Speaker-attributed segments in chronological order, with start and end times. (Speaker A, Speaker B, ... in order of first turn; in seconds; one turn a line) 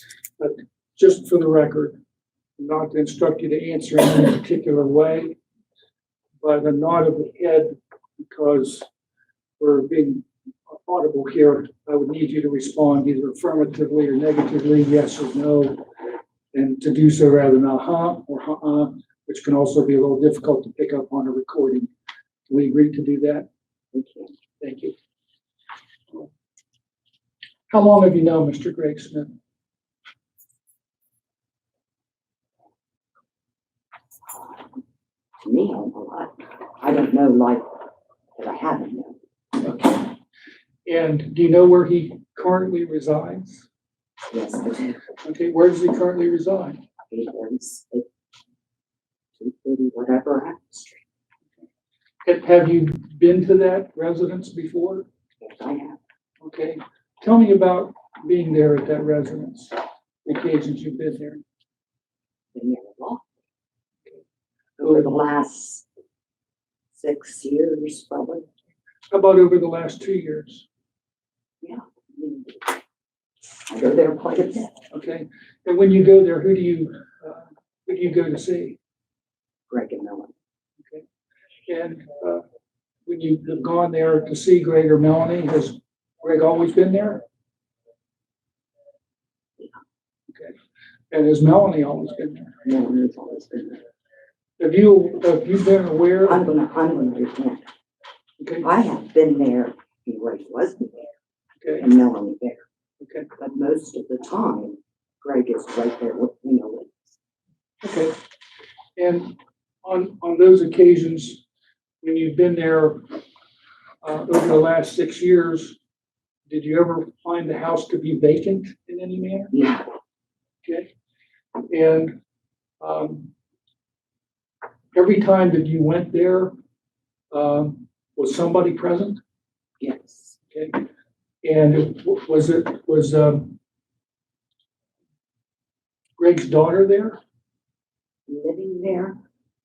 Speaker A: 0.4-2.0
Speaker A: 2.6-5.4
Speaker A: 6.4-8.9
Speaker A: 9.6-15.8
Speaker A: 16.5-21.9
Speaker A: 22.5-23.5
Speaker B: 23.9-24.3
Speaker A: 24.6-24.9
Speaker A: 27.7-29.3
Speaker B: 35.4-37.8
Speaker B: 38.4-39.2
Speaker A: 39.6-40.1
Speaker A: 40.9-43.6
Speaker B: 44.3-45.0
Speaker A: 45.2-46.8
Speaker B: 47.1-48.0
Speaker B: 49.4-51.0
Speaker A: 52.2-55.1
Speaker B: 55.4-56.0
Speaker A: 56.4-61.4
Speaker B: 62.5-63.2
Speaker B: 64.8-65.8
Speaker A: 64.8-65.1
Speaker B: 66.9-68.5
Speaker A: 69.1-70.6
Speaker B: 71.6-72.8
Speaker B: 73.7-74.7
Speaker A: 74.9-78.8
Speaker B: 79.7-80.3
Speaker A: 81.7-82.4
Speaker A: 83.1-87.2
Speaker A: 90.3-90.6
Speaker A: 91.1-92.5
Speaker B: 92.6-93.8
Speaker A: 94.6-96.4
Speaker B: 96.2-97.6
Speaker A: 98.4-98.7
Speaker B: 98.6-101.1
Speaker A: 101.6-101.9
Speaker B: 101.8-102.6
Speaker A: 103.0-103.3
Speaker B: 103.3-106.9
Speaker A: 107.8-108.1
Speaker A: 109.0-111.4
Speaker A: 112.0-113.1
Speaker A: 114.0-115.8
Speaker A: 116.5-119.5
Speaker B: 119.5-119.9
Speaker A: 120.6-120.9
Speaker A: 121.7-122.2
Speaker A: 122.8-123.3
Speaker A: 124.9-126.5
Speaker A: 127.3-129.2
Speaker B: 129.8-130.3
Speaker A: 130.5-130.8
Speaker A: 131.4-133.6
Speaker A: 136.2-137.2
Speaker B: 138.3-139.2